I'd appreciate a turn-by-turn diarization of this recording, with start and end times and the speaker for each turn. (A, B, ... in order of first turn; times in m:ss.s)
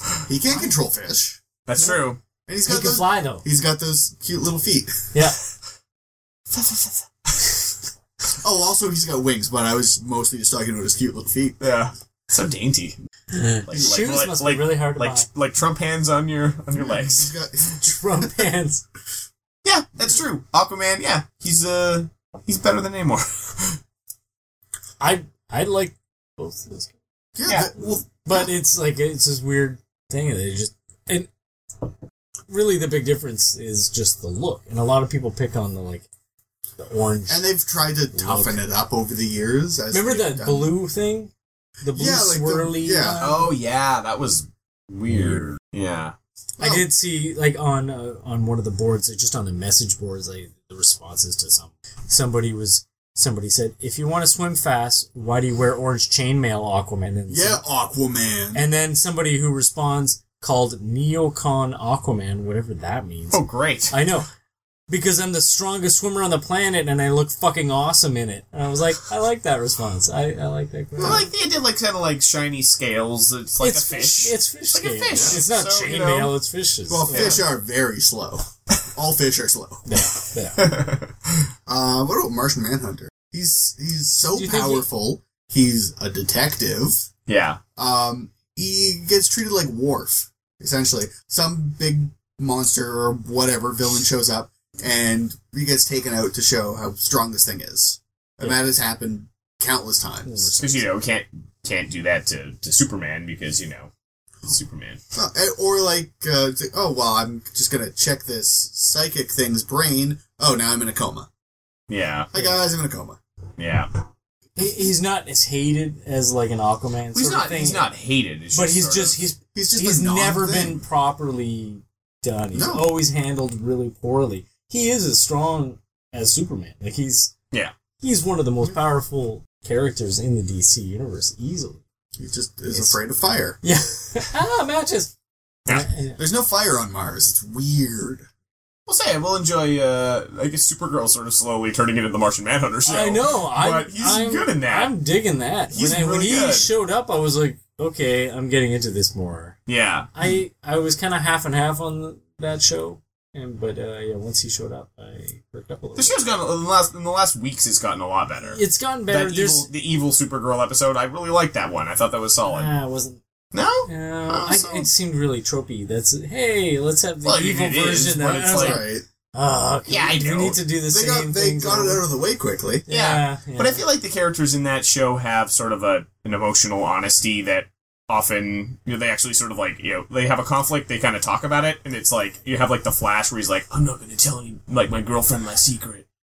0:00.2-0:01.4 A
0:01.6-0:02.2 B
0:02.5-0:05.1 A
0:02.6-0:03.4 C
0:06.5-0:07.7 B
0:08.3-0:11.6 A
0:11.6-0:13.0 B
0:13.3-0:15.3 C
0:13.6-0:17.3 B
0:13.8-0:14.1 A
0:16.7-0:18.4 A
0:17.8-0:18.8 C
0:19.6-0:23.8 B
0:25.0-0:26.9 C
0:27.4-0:28.5 A
0:28.1-0:31.3 C
0:32.5-0:36.0 C
0:36.8-0:37.5 C
0:37.3-0:40.7 A
0:38.1-0:38.6 C
0:39.9-0:43.5 C
0:41.9-0:43.4 A
0:43.2-0:46.1 B
0:46.6-0:46.9 A
0:46.6-0:57.6 C
0:57.3-0:58.6 A
0:58.5-1:04.2 C
1:03.3-1:04.0 B
1:04.9-1:11.3 C
1:11.0-1:11.2 A
1:11.0-1:16.4 B
1:13.6-1:17.4 C
1:15.1-1:15.4 A
1:16.9-1:19.8 A
1:17.1-1:17.4 B
1:19.9-1:20.6 C
1:20.6-1:21.5 B
1:21.7-1:27.0 A
1:24.2-1:24.8 C
1:27.3-1:27.6 B
1:27.8-1:40.6 A
1:40.2-1:40.8 C
1:40.6-1:43.9 B
1:44.4-1:45.0 B
1:45.1-1:51.3 A
1:51.9-1:52.3 B
1:52.3-1:53.2 A
1:53.6-1:53.9 B
1:54.6-1:57.9 C
1:57.1-1:59.2 B
1:58.5-2:07.3 C
1:59.5-2:00.8 A
2:02.5-2:03.0 A
2:08.0-2:11.8 C
2:12.2-2:13.6 A
2:13.6-2:15.1 C
2:15.7-2:16.2 C
2:16.2-2:18.3 A
2:18.9-2:24.9 B
2:22.8-2:29.6 C
2:25.7-2:26.7 B
2:29.7-2:30.1 B
2:30.1-2:36.2 C
2:36.0-2:42.7 B
2:38.5-2:39.7 C
2:42.4-2:43.2 C
2:43.5-2:44.9 B
2:43.8-2:52.0 C
2:47.2-2:48.8 B
2:48.5-2:49.0 A
2:49.9-2:50.6 B
2:50.8-2:52.8 A
2:52.9-2:53.8 C
2:52.9-3:06.0 B